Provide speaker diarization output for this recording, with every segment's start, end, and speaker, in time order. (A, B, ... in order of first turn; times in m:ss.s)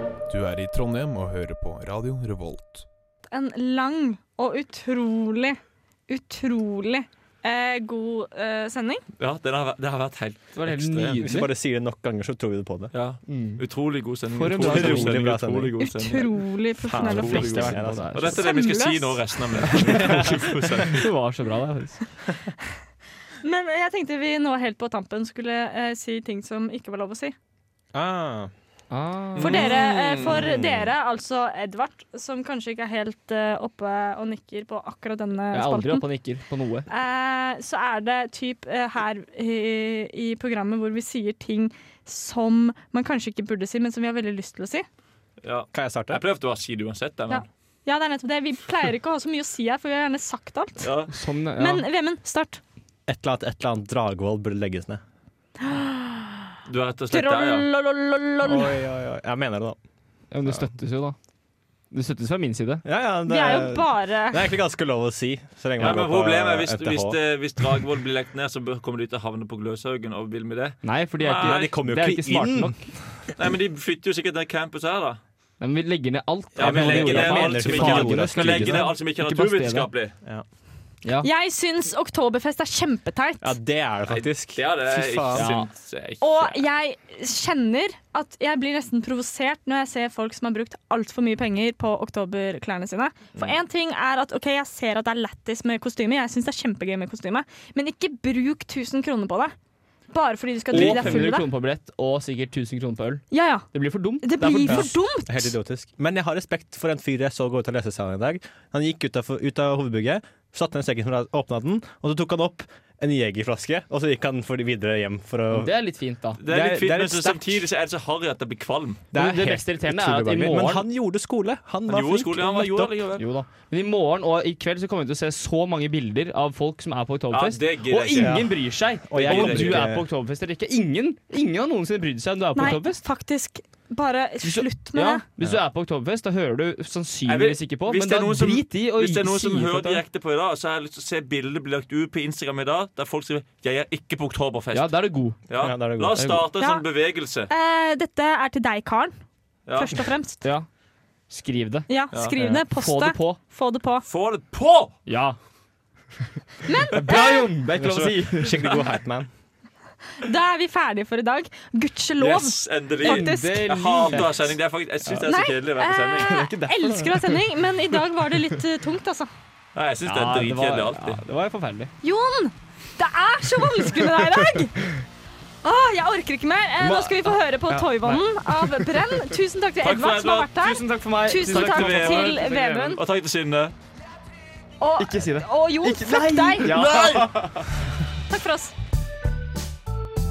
0:00.3-0:02.8 A
0:03.3-0:09.0 B
0:09.2-0:11.4 C
0:10.6-0:11.5 D
0:11.2-0:12.9 E
0:12.9-0:16.3 C
0:13.3-0:13.6 D
0:14.3-0:15.2 D
0:14.5-0:15.7 E
0:15.8-0:17.7 B
0:16.8-0:18.3 E
0:17.0-0:21.1 C
0:17.1-0:18.4 D
0:18.3-0:19.7 B
0:19.8-0:20.8 E
0:20.9-0:22.0 D
0:23.4-0:27.3 B
0:27.9-0:28.5 E
0:28.9-0:29.6 D
0:29.4-0:30.4 C
0:29.4-0:36.0 B
0:30.2-0:30.9 E
0:35.5-0:36.8 D
0:36.9-0:44.8 B
0:45.4-0:47.5 C
0:45.7-0:46.2 E
0:47.3-0:50.9 B
0:50.8-0:51.1 C
0:51.1-0:51.8 D
0:51.6-0:52.6 B
0:53.1-0:55.0 E
0:55.6-0:56.5 B
0:56.7-0:57.7 C
0:57.1-0:58.8 B
0:58.4-0:59.8 E
1:00.3-1:01.2 D
1:01.9-1:02.8 D
1:02.8-1:07.2 E
1:03.3-1:04.4 B
1:05.8-1:11.7 C
1:10.8-1:12.8 D
1:11.3-1:12.8 E
1:13.3-1:15.2 C
1:15.6-1:19.9 D
1:16.6-1:18.9 E
1:16.6-1:20.1 C
1:21.2-1:23.5 B
1:23.4-1:25.5 E
1:24.1-1:26.6 C
1:25.3-1:25.7 D
1:26.2-1:39.5 B
1:40.1-1:41.5 B
1:40.7-1:44.9 D
1:40.7-1:41.3 E
1:43.3-1:43.7 B
1:44.2-1:45.5 B
1:44.7-1:55.7 E
1:55.5-1:56.4 D
1:56.4-1:59.0 C
1:56.4-1:57.6 E
1:59.1-2:02.9 E
1:59.1-2:00.8 D
2:01.9-2:03.2 C
2:03.2-2:13.0 D
2:07.3-2:08.4 C
2:08.2-2:10.0 E
2:09.2-2:09.8 C
2:12.5-2:15.2 B
2:14.4-2:20.0 D
2:17.3-2:24.9 C
2:24.7-2:25.4 D
2:25.5-2:27.5 C
2:25.5-2:26.4 E
2:26.6-2:26.8 B
2:27.5-2:29.2 B
2:29.7-2:30.0 C
2:29.8-2:30.4 B
2:31.3-2:33.4 D
2:31.9-2:34.0 B
2:34.1-2:35.0 C
2:35.1-2:35.4 D
2:36.6-2:37.5 B
2:36.9-2:38.8 D
2:37.8-2:39.3 E
2:40.2-2:44.2 B
2:42.2-2:46.4 C
2:43.0-2:44.5 D
2:45.2-2:49.3 B
2:46.2-2:47.4 D
2:49.7-2:51.2 C
2:50.0-2:51.9 D
2:52.0-2:54.9 B
2:55.6-3:03.0 B
2:56.8-2:58.9 D
2:59.8-3:00.5 C
3:00.6-3:03.0 D
3:01.4-3:03.7 C
3:04.8-3:07.1 B
3:05.0-3:07.6 D
3:06.6-3:07.6 C
3:08.3-3:08.7 B